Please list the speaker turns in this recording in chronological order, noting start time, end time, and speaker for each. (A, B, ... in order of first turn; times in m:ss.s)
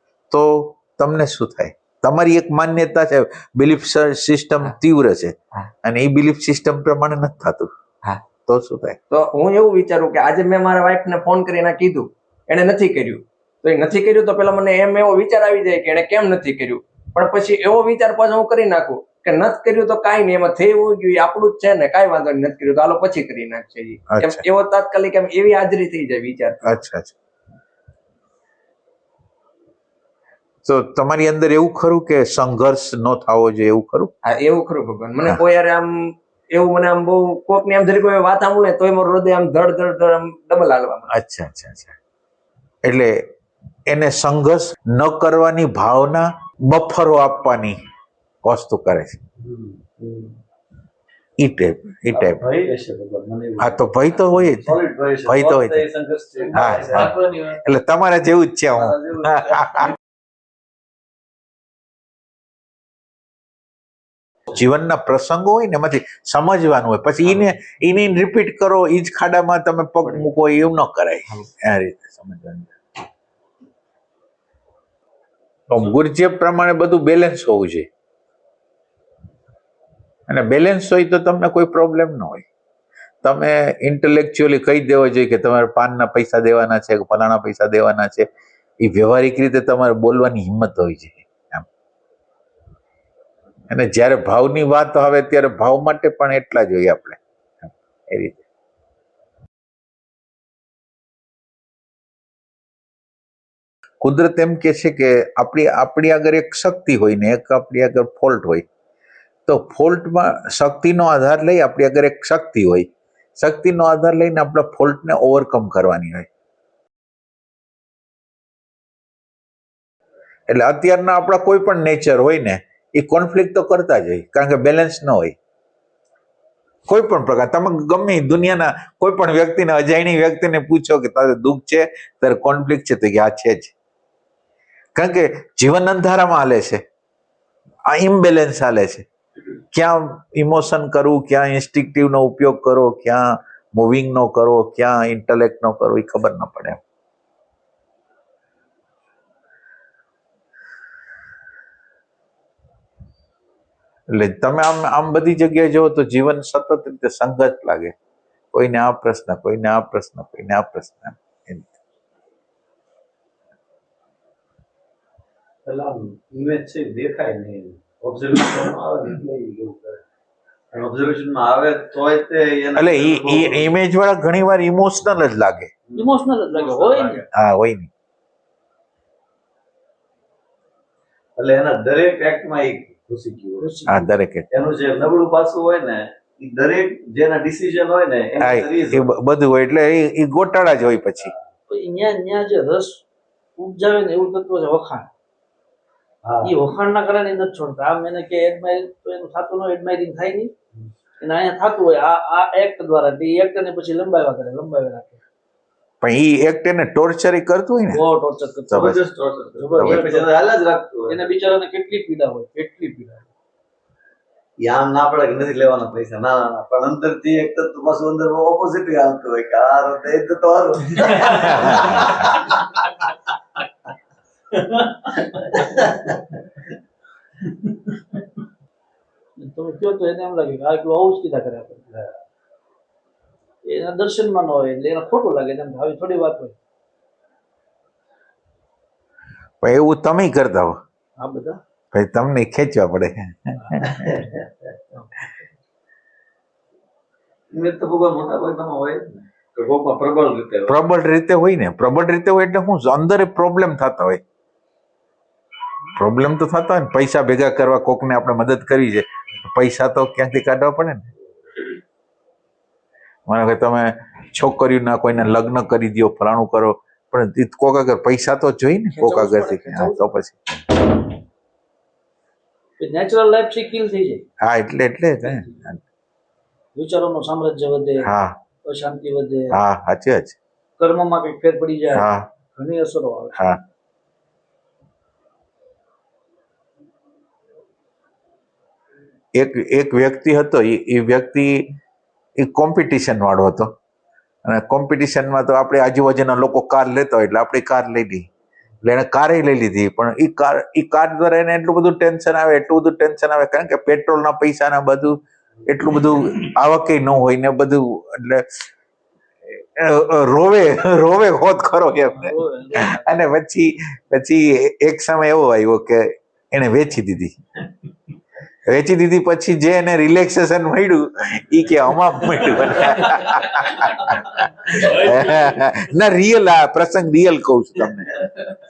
0:00.3-0:07.7 A
0:08.5-0:09.0 A
0:09.1-0:26.6 B
0:24.1-0:24.4 A
0:26.6-0:27.1 A
0:30.6-0:34.1 A
0:34.2-0:35.9 B
0:36.5-0:41.1 B
0:41.1-0:42.0 A
0:42.8-0:43.2 A
0:43.9-0:47.8 A
0:48.4-0:49.2 A
0:49.4-0:50.4 C
0:51.4-0:52.4 A
0:52.1-0:57.6 C
0:53.6-0:55.8 A
0:56.5-0:59.9 A
0:58.8-0:59.9 C
1:04.5-1:12.7 A
1:15.7-1:17.9 A
1:20.3-1:22.5 A
1:23.2-1:28.3 A
1:28.8-1:31.7 A
1:33.7-1:38.4 A
1:44.0-1:48.6 A
1:49.5-1:56.3 A
2:00.5-2:05.4 A
2:06.9-2:13.7 A
2:14.9-2:16.8 A
2:17.9-2:19.0 A
2:19.7-2:26.8 A
2:34.1-2:37.9 A
2:38.5-2:41.7 A
2:45.6-2:50.0 C
2:50.7-2:53.7 C
2:52.8-2:55.7 A
2:55.9-2:57.2 C
2:56.0-2:57.2 D
2:57.3-2:57.9 A
3:01.4-3:03.7 C
3:03.6-3:04.1 D
3:03.9-3:04.4 A
3:04.5-3:09.1 C
3:08.4-3:11.3 A
3:11.7-3:13.0 D
3:13.6-3:15.1 D
3:16.2-3:16.5 C
3:16.4-3:20.5 D
3:21.2-3:25.2 D
3:26.0-3:28.0 A
3:27.9-3:30.4 D
3:28.7-3:29.0 A
3:28.7-3:31.1 C
3:29.8-3:30.1 A
3:31.1-3:33.3 D
3:34.6-3:42.3 C
3:41.3-3:42.2 A
3:49.4-3:52.0 D
3:53.6-3:56.6 D
3:59.6-4:00.8 A
4:01.2-4:01.6 D
4:01.9-4:03.9 A
4:03.9-4:04.5 C
4:07.5-4:10.8 C
4:10.7-4:14.2 A
4:16.0-4:21.1 A
4:23.3-4:30.9 A
4:29.0-4:30.0 D
4:32.8-4:34.2 D
4:34.4-4:35.8 A
4:36.8-4:38.1 D
4:38.0-4:38.4 A
4:38.6-4:39.6 D
4:39.5-4:40.4 A
4:40.8-4:43.4 D
4:41.9-4:42.2 A
4:43.3-4:43.6 A
4:49.3-4:51.7 A
4:52.4-4:53.8 A
4:54.4-4:58.3 A
4:58.8-5:08.6 A
5:09.8-5:17.4 A
5:12.1-5:13.2 D
5:18.6-5:28.1 A